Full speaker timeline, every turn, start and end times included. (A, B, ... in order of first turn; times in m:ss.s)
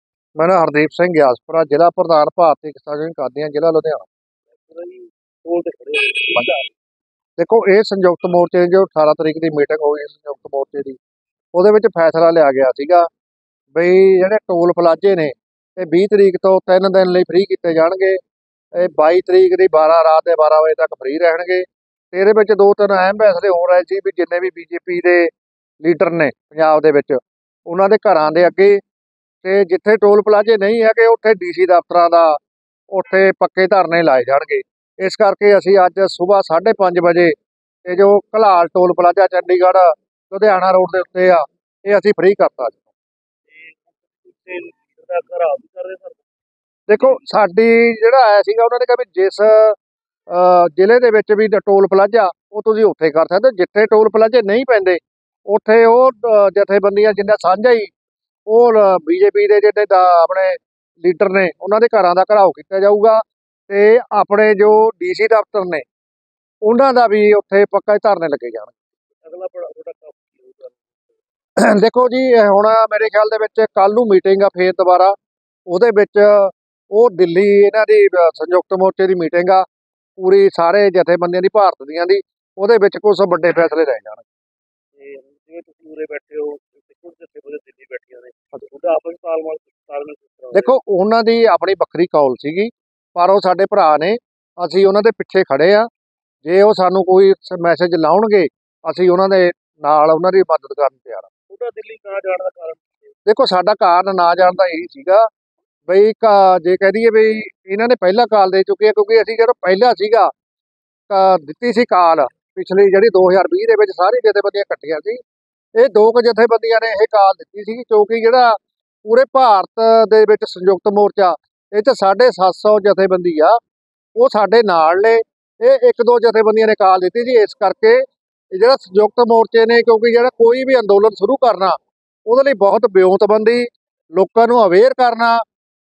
0:00.4-0:04.1 A
0:04.6-0:06.7 B
0:07.4-0:11.0 A
0:11.5-0:13.1 A
0:13.8-0:18.2 A
0:18.7-0:25.3 A
0:25.8-0:28.8 A
0:29.4-0:32.4 A
0:32.9-0:37.3 A
0:37.8-0:42.9 A
0:43.5-0:46.2 B
0:46.9-0:49.8 A
0:50.3-0:57.9 A
0:58.5-1:05.8 A
1:06.6-1:08.7 A
1:09.2-1:10.9 B
1:11.6-1:15.2 A
1:15.7-1:19.7 A
1:20.2-1:24.2 A
1:25.0-1:30.8 B
1:30.5-1:35.9 A
1:36.4-1:41.3 A
1:41.5-1:43.1 B
1:43.3-1:45.3 A
1:45.9-1:50.3 A
1:51.1-1:55.2 A
1:55.8-2:03.6 A
2:04.2-2:08.0 A
2:08.5-2:15.4 A